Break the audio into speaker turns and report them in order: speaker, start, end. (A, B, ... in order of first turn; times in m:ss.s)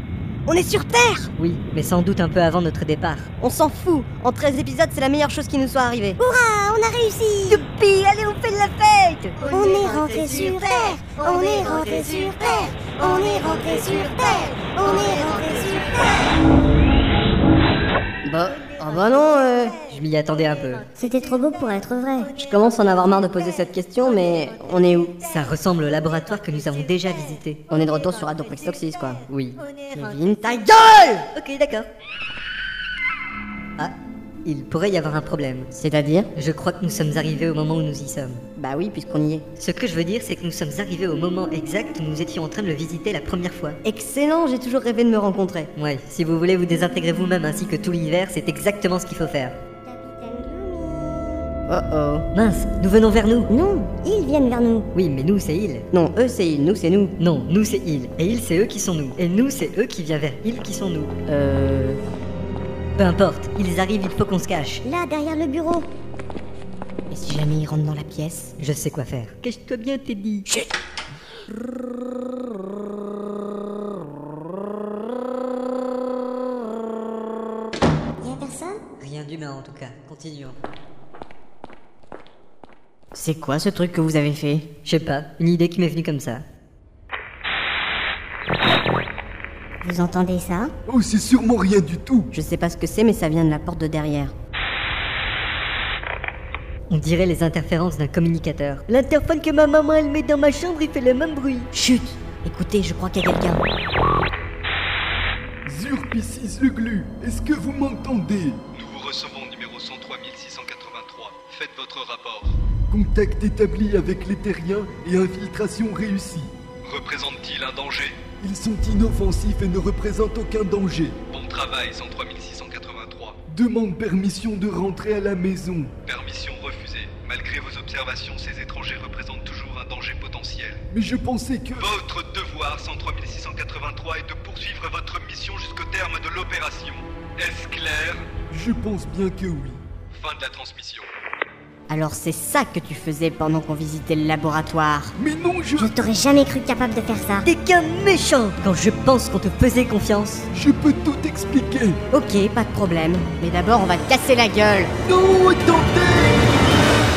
0:00.5-0:01.3 A
0:01.4-0:03.3 B
0:03.4-0:06.2 A
0:06.2-0:07.6 C
0:07.5-0:09.4 B
0:09.4-0:16.3 C
0:18.2-0:19.8 A
0:19.9-0:20.8 B
0:21.0-0:22.3 C
0:22.3-0:25.2 A
0:25.2-0:27.6 B
0:27.7-0:29.3 A
0:29.3-0:29.6 B
0:29.9-0:31.2 A
0:31.3-0:31.9 B
0:34.4-0:35.7 B
0:35.7-0:36.3 A
0:36.3-0:38.4 B
0:38.6-0:39.4 A
0:39.6-0:43.8 B
0:43.8-0:45.7 A
0:45.8-0:49.5 B
0:49.8-0:51.5 C
0:51.7-0:52.3 A
0:52.3-0:53.5 B
0:53.5-0:54.9 C
0:54.9-0:55.8 B
0:55.9-0:57.2 A
0:57.2-1:01.1 B
1:01.3-1:02.0 A
1:03.0-1:04.8 B
1:04.8-1:05.9 C
1:07.1-1:08.5 A
1:08.6-1:10.4 B
1:18.2-1:18.8 C
1:19.0-1:20.6 B
1:23.1-1:24.7 A
1:24.8-1:26.4 B
1:29.8-1:30.7 C
1:30.9-1:32.3 D
1:32.3-1:34.3 A
1:36.9-1:41.7 B
1:41.7-1:43.6 A
1:45.6-1:48.6 D
1:48.7-1:52.6 E
1:52.9-1:56.5 D
1:56.8-1:58.2 E
1:58.4-2:01.2 D
2:01.3-2:03.4 E
2:03.5-2:05.9 D
2:06.0-2:10.8 E
2:10.9-2:11.9 D
2:11.8-2:18.3 E
2:18.5-2:19.8 D
2:20.1-2:21.1 E
2:21.9-2:25.1 A
2:25.2-2:25.9 D
2:25.8-2:27.5 C
2:27.4-2:30.5 B
2:30.5-2:32.0 D
2:32.1-2:34.9 A
2:35.0-2:36.4 D